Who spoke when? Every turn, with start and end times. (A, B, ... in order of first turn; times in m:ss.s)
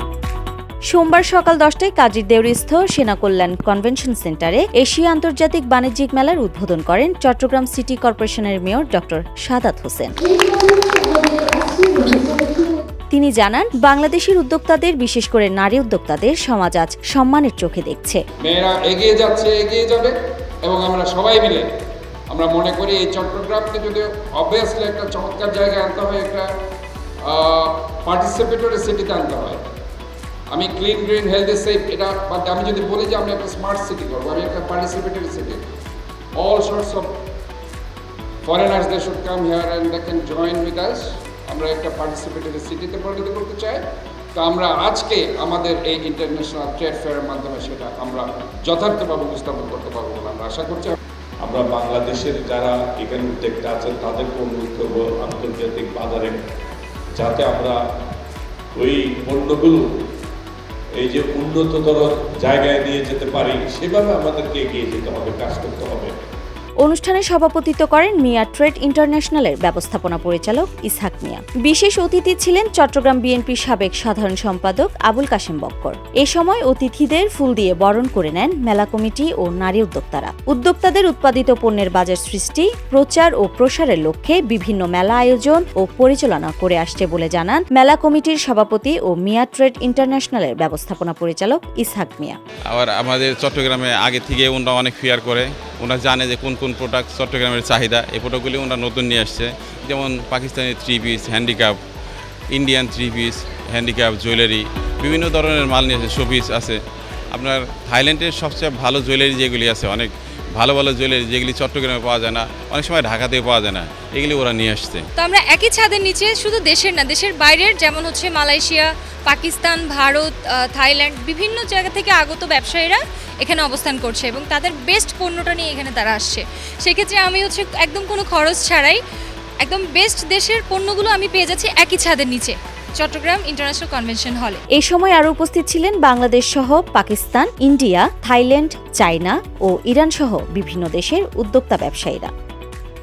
0:00.9-0:10.1 A
0:10.2-0:12.8 B
0:13.1-0:18.2 A
0:18.4-0:21.7 C
0:22.3-0:26.5 C
0:27.3-0:29.6 C
0:30.5-0:35.8 C
0:36.4-0:37.2 C
0:38.4-0:43.8 C
0:44.4-0:51.0 C
0:51.4-0:56.4 D
0:57.2-0:57.8 D
0:58.8-0:59.8 D
1:01.0-1:06.1 D
1:06.8-1:32.4 A
1:32.7-1:41.8 E
1:42.5-1:46.8 E
1:47.3-1:55.1 E
1:55.2-2:09.0 B
2:09.6-2:14.6 B
2:14.8-2:22.3 A